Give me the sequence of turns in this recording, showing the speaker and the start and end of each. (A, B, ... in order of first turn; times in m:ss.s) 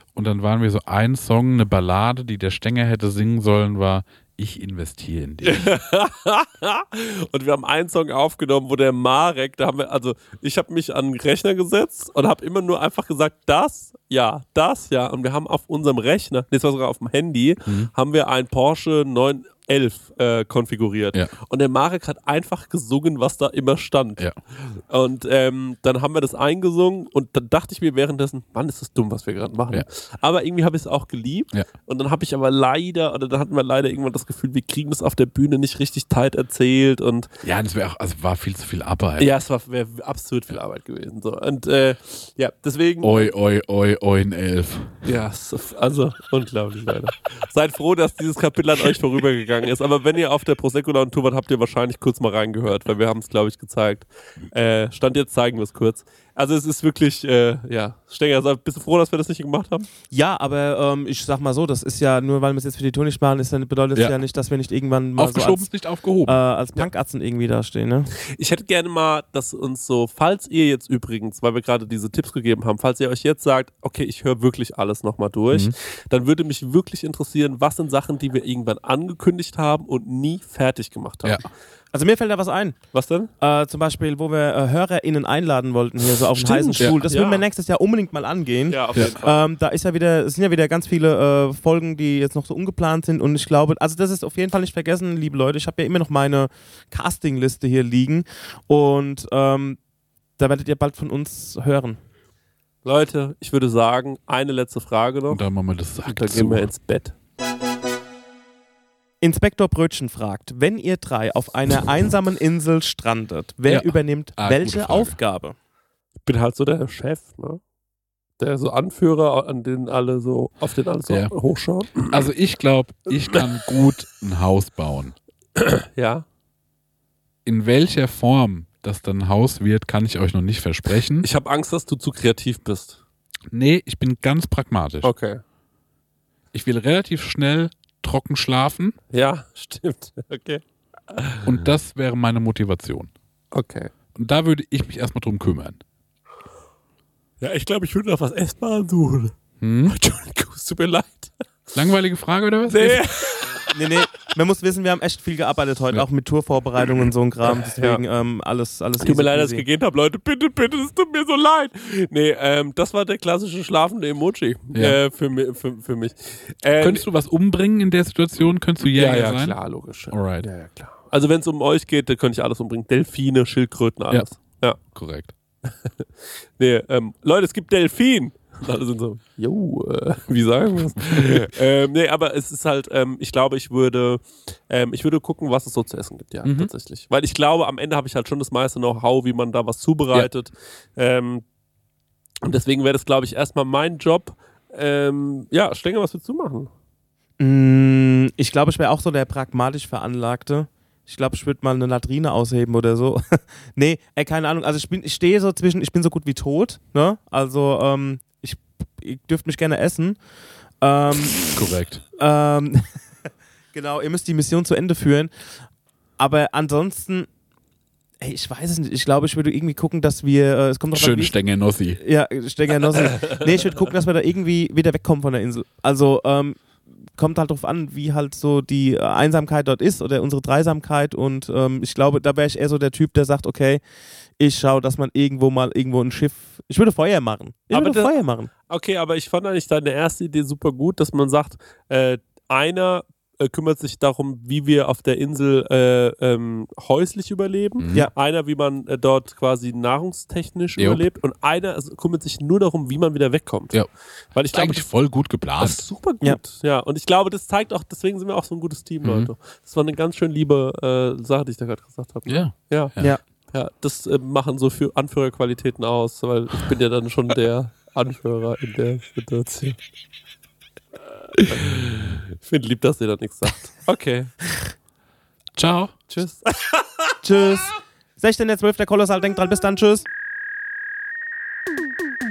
0:00.1-0:05.7 A
0:05.4-0:37.3 B
0:37.4-0:39.3 A
0:39.2-0:43.3 B
0:43.0-0:45.0 A
0:45.0-0:59.9 B
1:00.1-1:05.7 C
1:04.0-1:04.2 A
1:05.2-1:06.4 A
1:06.2-1:08.1 C
1:08.2-1:21.4 B
1:21.9-1:22.8 C
1:22.9-1:23.3 B
1:23.4-1:39.8 C
1:26.3-1:27.4 B
1:28.7-1:29.4 B
1:40.4-1:42.0 C
1:42.8-1:45.4 B
1:45.3-1:46.7 A
1:46.0-1:47.2 B
1:49.2-1:55.6 C
1:53.7-1:55.2 A
1:56.2-1:57.6 B
1:58.4-2:02.3 B
2:02.0-2:05.1 A
2:05.6-2:06.2 B
2:07.4-2:11.3 A
2:11.2-2:13.0 B
2:13.5-2:15.1 A
2:15.0-2:15.4 B
2:16.5-2:19.0 A
2:19.1-2:21.5 B
2:21.4-2:23.1 A
2:23.5-2:23.9 B
2:24.1-2:25.8 A
2:27.4-2:29.3 B
2:29.6-2:29.9 A
2:29.8-2:31.4 B
2:31.7-2:33.0 A
2:32.7-2:34.1 B
2:33.6-2:39.6 C
2:37.6-2:38.0 B
2:39.0-2:47.0 B
2:44.7-2:45.0 A
2:46.8-2:49.6 A
2:48.9-2:54.8 B
2:50.1-2:50.5 A
2:54.9-2:55.3 A
2:56.6-3:11.4 B
3:01.1-3:01.4 A
3:06.4-3:06.7 A
3:12.4-3:16.7 B
3:17.4-3:30.2 C
3:30.8-3:31.5 C
3:31.5-3:32.0 A
3:32.2-3:32.8 C
3:33.7-3:35.3 C
3:36.2-3:37.3 C
3:38.2-3:41.4 C
3:40.9-3:42.0 A
3:42.0-3:46.6 C
3:47.1-3:53.8 C
3:54.4-3:58.5 C
3:57.7-3:58.1 B
3:58.6-4:13.8 B
4:07.8-4:08.1 A
4:10.8-4:11.0 A
4:14.3-4:14.9 B
4:14.5-4:15.8 A
4:15.6-4:22.9 B
4:19.0-4:19.3 A
4:22.3-4:23.1 A
4:23.5-4:29.8 B
4:31.5-4:34.3 B
4:35.6-4:35.9 A
4:36.1-4:37.1 B
4:37.2-4:40.0 C